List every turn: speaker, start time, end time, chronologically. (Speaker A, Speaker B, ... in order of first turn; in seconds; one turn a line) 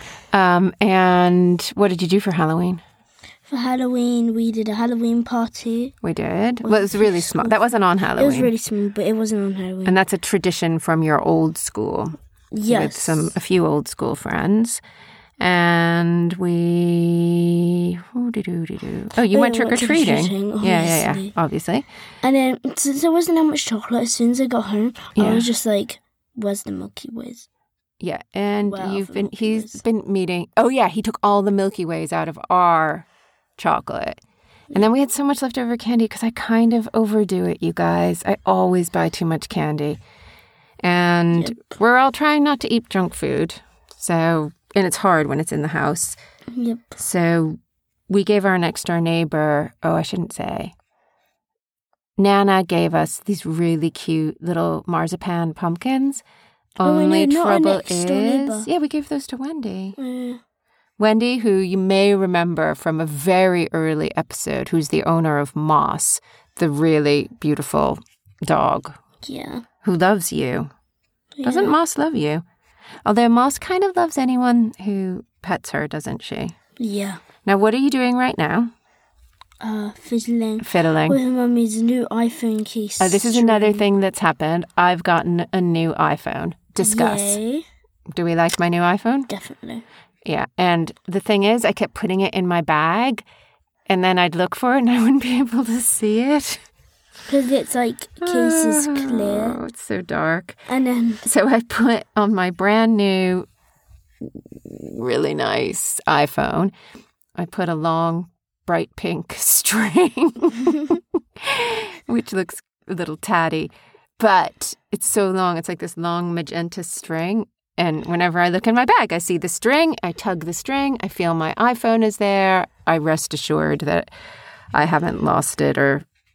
Speaker A: 0.3-2.8
Speaker B: 3.5-5.9
Speaker A: 6.0-8.5
Speaker B: 6.6-7.6
Speaker B: 8.2-10.0
Speaker A: 9.8-12.2
Speaker B: 12.5-13.3
Speaker A: 12.7-14.8
Speaker A: 15.4-21.9
Speaker B: 19.3-21.3
Speaker B: 22.2-27.5
Speaker A: 25.2-25.5
Speaker A: 28.0-34.2
Speaker B: 28.7-29.8
Speaker A: 34.7-40.0
Speaker A: 40.8-46.2
Speaker B: 41.3-41.6
Speaker B: 46.5-47.0
Speaker A: 47.0-47.6
Speaker A: 48.1-50.7
Speaker A: 52.2-56.2
Speaker A: 56.8-60.0
Speaker B: 56.8-58.7
Speaker B: 60.0-60.4
Speaker A: 61.0-69.0
Speaker B: 69.2-69.7
Speaker A: 69.8-70.7
Speaker B: 71.4-71.8
Speaker A: 71.4-72.4
Speaker A: 73.0-76.5
Speaker B: 76.8-77.2
Speaker A: 77.5-78.7
Speaker B: 79.6-83.8
Speaker A: 80.6-81.2
Speaker A: 83.0-87.4
Speaker B: 86.8-87.6
Speaker A: 88.1-89.3
Speaker B: 89.3-89.8
Speaker A: 90.2-93.2
Speaker A: 93.9-96.6
Speaker B: 97.3-99.6
Speaker A: 98.2-100.6
Speaker B: 100.7-101.2
Speaker A: 101.2-103.5
Speaker A: 104.2-106.7
Speaker A: 107.4-124.1
Speaker A: 124.7-126.0